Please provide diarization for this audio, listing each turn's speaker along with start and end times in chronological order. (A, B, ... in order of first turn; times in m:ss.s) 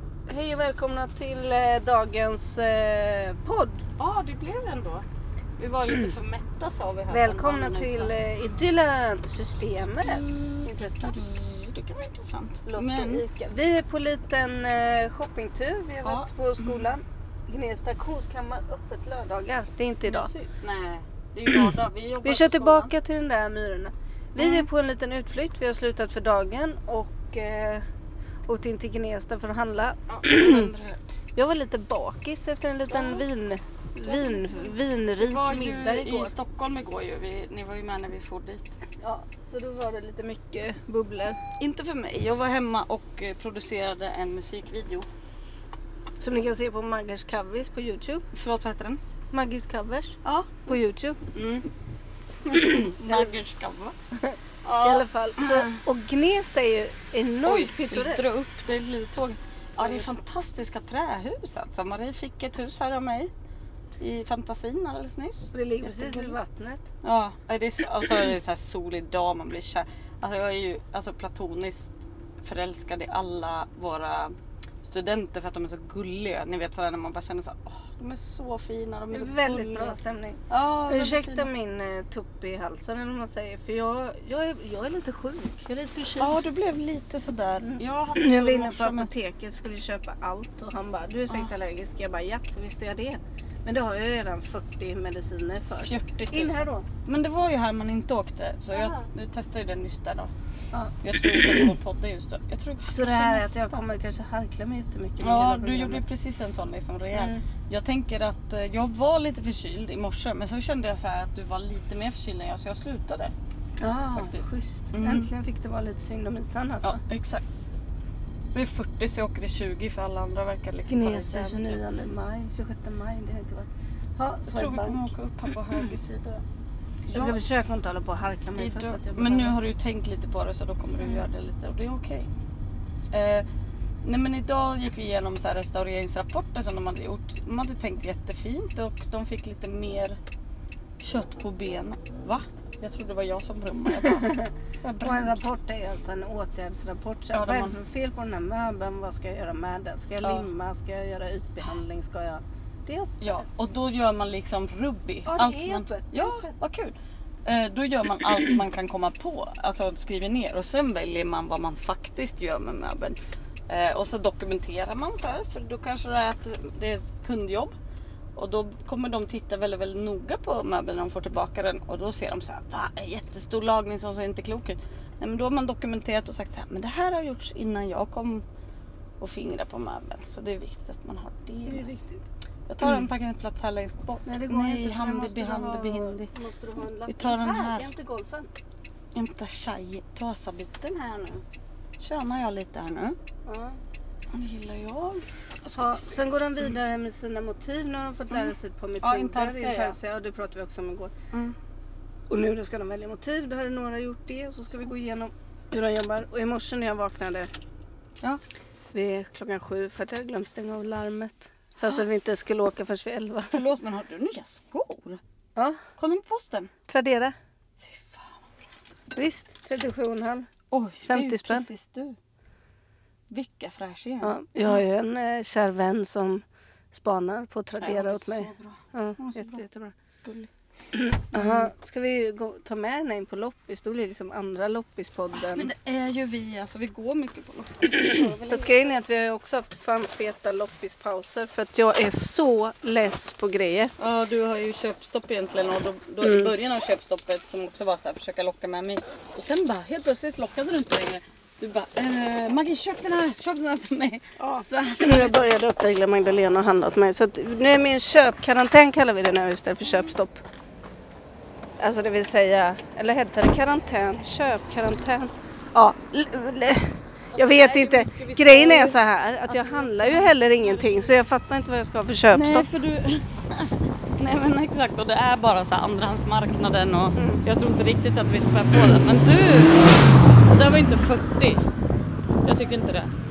0:00.3-0:03.8 A
0:04.0-0:05.0 B
0:05.6-0:08.1 B
0:07.1-0:11.1 A
0:10.0-0:13.2 B
0:12.6-0:20.3 A
0:16.0-0:16.8 B
0:20.0-0:22.9 B
0:22.2-0:27.8 A
0:24.4-0:24.7 B
0:28.5-0:30.7 A
0:30.1-0:31.0 B
0:31.4-0:36.3 A
0:32.9-0:33.2 B
0:34.0-0:38.7 B
0:39.0-0:41.4 A
0:41.6-0:45.0 B
0:46.2-0:48.2 A
0:48.3-0:49.0 B
0:49.3-0:51.2 A
0:50.2-0:50.8 B
0:51.3-0:51.6 B
0:52.4-0:53.9 B
0:52.6-0:53.3 A
0:54.2-0:58.3 A
0:54.6-0:55.8 B
0:57.4-1:03.3 B
0:59.8-1:00.1 A
1:04.0-1:06.3 B
1:05.5-1:06.8 A
1:07.0-1:11.9 B
1:12.4-1:21.5 B
1:19.1-1:26.4 A
1:26.2-1:29.1 B
1:27.6-1:36.9 A
1:35.8-1:40.3 B
1:38.7-1:39.1 A
1:41.0-1:43.8 B
1:42.9-1:46.0 A
1:45.2-1:53.3 B
1:47.1-1:47.4 A
1:53.8-1:57.0 A
1:54.2-1:55.3 B
1:56.8-1:57.4 B
1:58.5-2:01.8 B
2:00.9-2:05.1 A
2:04.5-2:06.4 B
2:07.1-2:07.4 B
2:07.1-2:09.6 A
2:08.6-2:12.3 B
2:13.1-2:13.4 B
2:14.0-2:20.2 B
2:21.0-2:25.4 B
2:25.0-2:33.4 A
2:27.3-2:27.8 B
2:30.2-2:30.5 B
2:33.2-2:43.2 B
2:35.3-2:36.5 A
2:43.7-2:47.7 B
2:48.4-2:58.4 B
2:59.2-3:02.0 B
3:01.7-3:02.2 A
3:02.7-3:06.3 B
3:04.2-3:08.6 A
3:07.1-3:07.9 B
3:09.1-3:11.4 B
3:12.0-3:13.2 B
3:13.4-3:13.8 A
3:14.3-3:16.2 B
3:15.7-3:21.1 A
3:18.3-3:20.0 B
3:22.3-3:27.5 A
3:28.9-3:33.6 A
3:33.5-3:35.2 B
3:36.0-3:36.7 B
3:36.9-3:37.3 A
3:37.8-3:38.5 B
3:39.1-3:40.5 A
3:40.7-3:42.2 B
3:41.0-3:41.7 A
3:43.3-3:44.8 B
3:44.2-3:49.9 A
3:47.8-3:49.6 B
3:50.2-3:50.5 B
3:50.9-3:55.7 A
3:51.3-3:51.7 B
3:55.3-3:59.0 B
3:58.4-4:03.9 A
4:04.0-4:15.4 B
4:06.2-4:06.5 A
4:14.4-4:20.4 A
4:21.8-4:32.7 A
4:27.3-4:31.1 B
4:32.3-4:41.6 B
4:37.2-4:37.4 A
4:42.4-4:43.1 B